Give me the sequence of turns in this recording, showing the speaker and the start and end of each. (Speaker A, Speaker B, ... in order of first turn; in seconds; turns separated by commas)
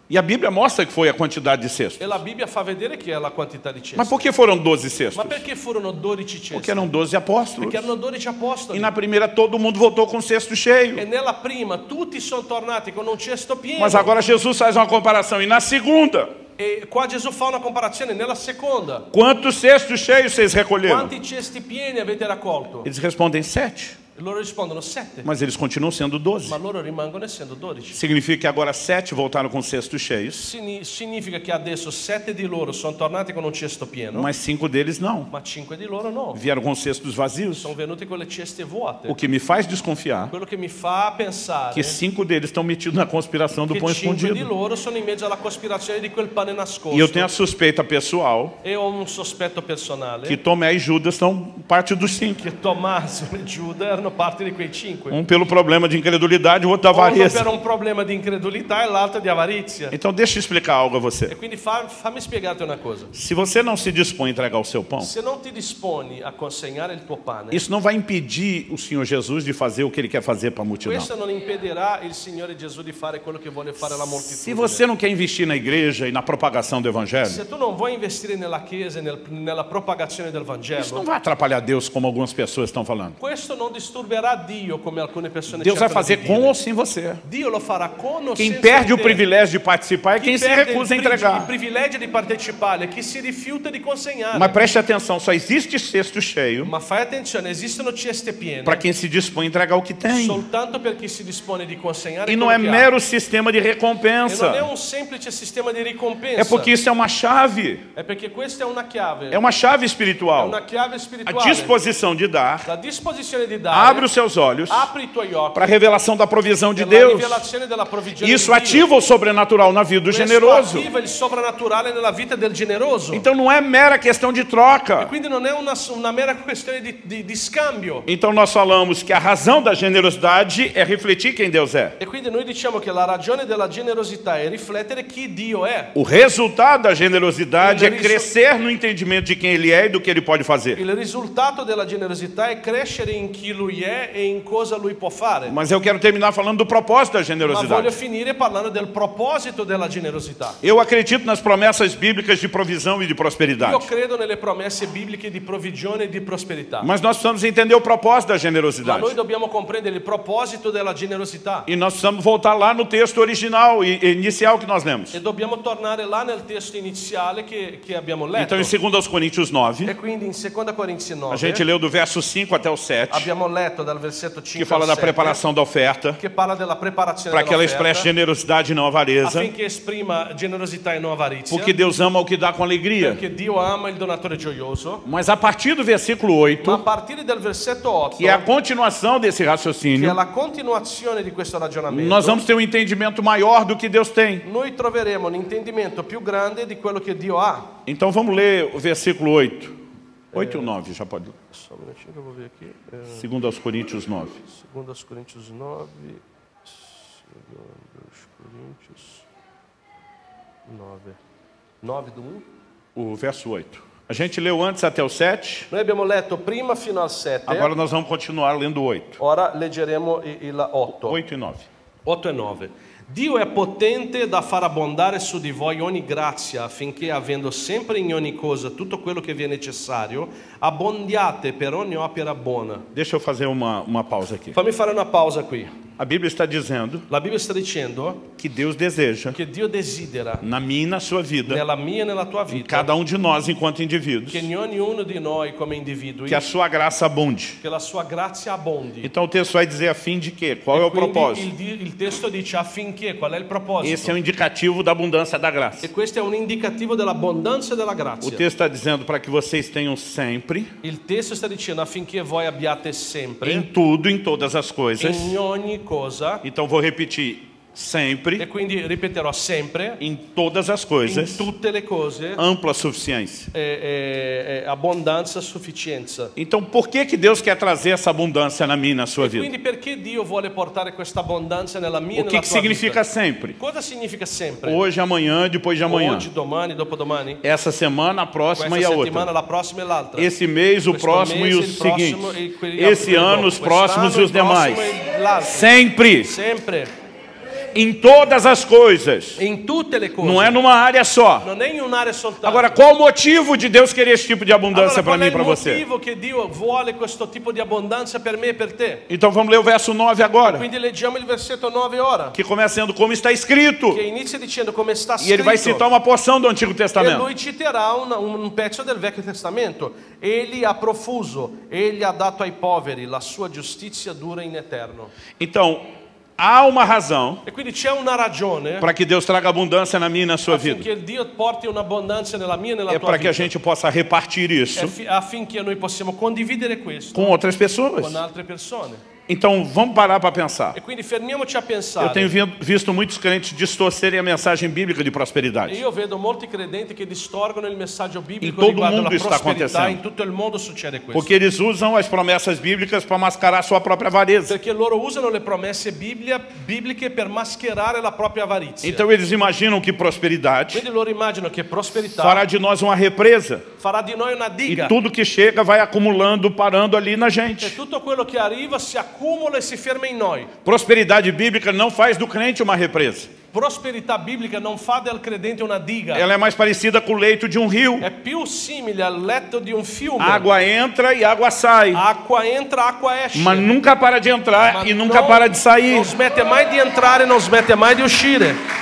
Speaker A: 0.1-2.2, Speaker B: 2.0-4.3, Speaker A: 4.0-5.4, Speaker B: 5.1-6.9, Speaker A: 6.5-7.9, Speaker B: 7.6-8.9, Speaker A: 8.7-11.0, Speaker B: 11.0-14.2, Speaker A: 13.8-16.3, Speaker B: 16.6-19.1, Speaker A: 19.1-21.1, Speaker B: 20.9-22.9, Speaker A: 22.9-24.0, Speaker B: 24.2-25.3, Speaker A: 25.2-26.6, Speaker B: 26.5-28.0, Speaker A: 27.9-30.5, Speaker B: 30.4-34.3, Speaker A: 34.1-35.3, Speaker B: 35.3-36.4, Speaker A: 36.3-37.7, Speaker B: 37.6-39.2, Speaker A: 39.1-40.3, Speaker B: 40.3-42.0, Speaker A: 41.7-44.5, Speaker B: 43.7-47.3, Speaker A: 46.9-48.6, Speaker B: 48.6-50.4, Speaker A: 50.3-52.4, Speaker B: 52.4-55.2, Speaker A: 55.1-57.5, Speaker B: 56.9-59.9, Speaker A: 59.9-61.3, Speaker B: 61.3-63.1, Speaker A: 63.1-65.1, Speaker B: 65.0-67.6, Speaker A: 67.5-71.1, Speaker B: 70.8-74.8, Speaker A: 73.8-77.4, Speaker B: 77.2-81.1, Speaker A: 80.8-83.2, Speaker B: 83.2-86.6, Speaker A: 85.5-87.2, Speaker B: 87.2-89.2, Speaker A: 88.4-91.5, Speaker B: 90.2-94.6, Speaker A: 94.3-96.7, Speaker B: 96.6-98.8, Speaker A: 98.7-100.4, Speaker B: 100.1-102.9, Speaker A: 102.3-104.7, Speaker B: 104.3-106.7, Speaker A: 106.4-107.8, Speaker B: 108.0-109.4, Speaker A: 109.3-110.6, Speaker B: 110.4-111.8, Speaker A: 111.3-112.7, Speaker B: 112.7-114.1, Speaker A: 113.7-114.9, Speaker B: 114.7-115.8, Speaker A: 115.5-117.5, Speaker B: 116.8-118.9, Speaker A: 118.2-120.9, Speaker B: 120.1-123.3, Speaker A: 123.1-125.1, Speaker B: 125.0-128.1, Speaker A: 128.1-132.0, Speaker B: 132.0-135.9, Speaker A: 135.9-140.8, Speaker B: 137.6-138.3, Speaker B: 140.8-145.6, Speaker A: 145.5-148.0, Speaker B: 147.4-150.6, Speaker A: 150.6-153.9, Speaker B: 153.6-156.9, Speaker A: 156.8-159.2, Speaker B: 158.8-161.7, Speaker A: 161.7-165.2, Speaker B: 165.1-168.7, Speaker A: 168.4-169.9, Speaker B: 169.8-171.6, Speaker A: 171.3-173.3, Speaker B: 173.1-175.4, Speaker A: 174.6-176.2, Speaker B: 176.2-178.1, Speaker A: 177.3-179.5, Speaker B: 179.2-181.7, Speaker A: 181.5-183.2, Speaker B: 183.0-185.0, Speaker A: 185.1-186.8, Speaker B: 186.6-188.5, Speaker A: 188.2-190.2, Speaker B: 189.9-192.4, Speaker A: 191.9-194.4, Speaker B: 194.4-197.7, Speaker A: 197.9-199.8, Speaker B: 200.3-200.7, Speaker A: 200.3-201.4, Speaker B: 201.5-203.3, Speaker A: 203.1-204.4, Speaker B: 204.4-209.2, Speaker B: 210.7-211.2, Speaker B: 211.8-212.4, Speaker A: 212.9-215.7, Speaker B: 215.7-217.7, Speaker A: 217.5-219.2, Speaker B: 219.2-221.2, Speaker A: 220.9-221.7, Speaker B: 222.1-232.9, Speaker A: 232.9-234.6, Speaker B: 234.5-235.8, Speaker A: 236.0-237.1, Speaker B: 237.1-238.3, Speaker A: 238.4-239.4, Speaker B: 239.3-240.4, Speaker A: 240.4-241.6, Speaker B: 241.5-242.9, Speaker A: 242.5-244.5, Speaker B: 244.3-246.4, Speaker A: 246.3-247.6, Speaker B: 247.6-249.1, Speaker A: 249.0-251.5, Speaker B: 250.7-254.2, Speaker A: 253.8-255.9, Speaker B: 255.8-258.4, Speaker A: 258.2-260.7, Speaker B: 260.8-263.7, Speaker A: 263.4-265.4, Speaker B: 265.0-266.4, Speaker A: 266.4-268.5, Speaker B: 268.4-270.0, Speaker A: 270.0-271.5, Speaker B: 271.1-272.4, Speaker A: 272.4-273.5, Speaker B: 273.5-276.3, Speaker A: 276.4-279.5, Speaker B: 279.2-283.0, Speaker A: 282.1-283.6, Speaker B: 283.6-284.8, Speaker A: 284.6-286.3, Speaker B: 285.9-287.4, Speaker A: 287.4-289.3, Speaker B: 288.6-290.3, Speaker A: 290.2-296.4, Speaker B: 290.9-296.9, Speaker A: 297.7-299.4, Speaker B: 299.4-300.6, Speaker A: 300.2-301.5, Speaker B: 301.4-302.8, Speaker A: 302.4-305.8, Speaker B: 304.7-309.1, Speaker A: 309.1-310.7, Speaker B: 310.4-312.4, Speaker A: 312.3-314.0, Speaker B: 313.9-315.9, Speaker A: 315.2-317.3, Speaker B: 317.0-325.1, Speaker A: 325.4-325.9, Speaker A: 326.4-327.4, Speaker B: 327.5-328.9, Speaker A: 328.8-330.9, Speaker B: 330.5-333.5, Speaker A: 332.9-334.9, Speaker B: 334.8-337.4, Speaker A: 337.1-338.2, Speaker B: 338.0-339.0, Speaker A: 339.3-340.8, Speaker B: 340.7-342.3, Speaker A: 342.0-345.8, Speaker B: 345.7-351.3, Speaker A: 348.4-350.0, Speaker A: 351.1-354.6, Speaker B: 354.5-359.0, Speaker A: 358.8-360.9, Speaker B: 360.7-362.4, Speaker A: 362.1-363.7, Speaker B: 363.8-364.9, Speaker A: 364.7-367.8, Speaker B: 367.6-370.5, Speaker A: 370.6-373.3, Speaker B: 373.5-376.3, Speaker A: 376.1-378.1, Speaker B: 378.0-380.5, Speaker A: 380.2-382.0, Speaker B: 381.9-383.7, Speaker A: 383.3-386.1, Speaker B: 384.6-388.6